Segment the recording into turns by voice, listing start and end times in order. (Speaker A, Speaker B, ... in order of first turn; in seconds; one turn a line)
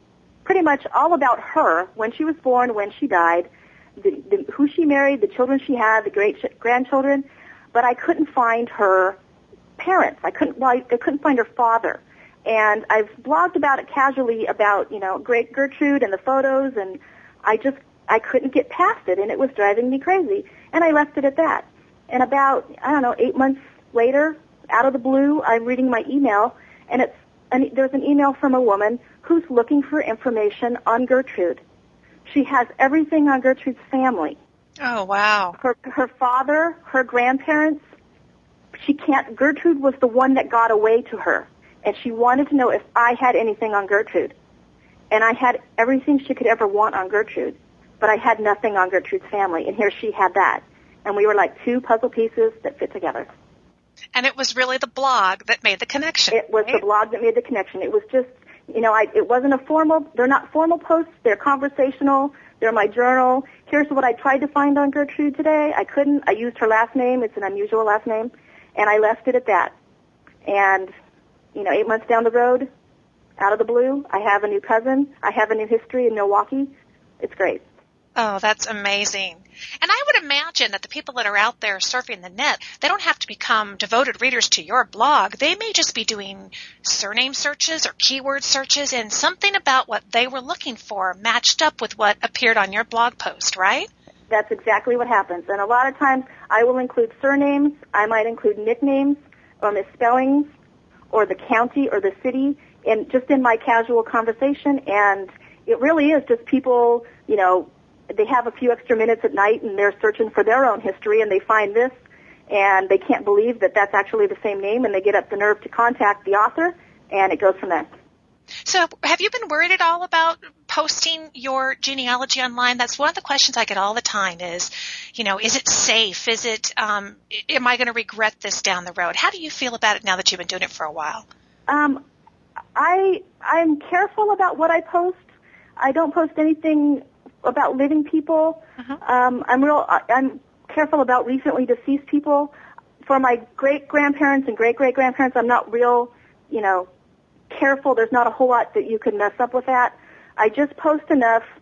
Speaker A: 0.4-9.2
Speaker A: 9.8-31.6
Speaker A: 32.3-34.4
Speaker B: 34.8-35.5
Speaker A: 35.6-37.8
Speaker A: 38.8-44.3
Speaker A: 45.1-53.3
Speaker B: 54.1-56.8
Speaker A: 56.3-69.7
Speaker A: 70.4-70.9
Speaker A: 71.5-72.7
Speaker A: 73.4-77.6
Speaker B: 78.2-93.9
Speaker A: 94.3-100.5
Speaker A: 101.1-111.9
Speaker A: 112.5-117.9
Speaker B: 118.6-131.3
Speaker A: 131.7-132.0
Speaker A: 132.8-135.2
Speaker A: 135.8-142.5
Speaker A: 143.0-146.9
Speaker A: 147.5-151.4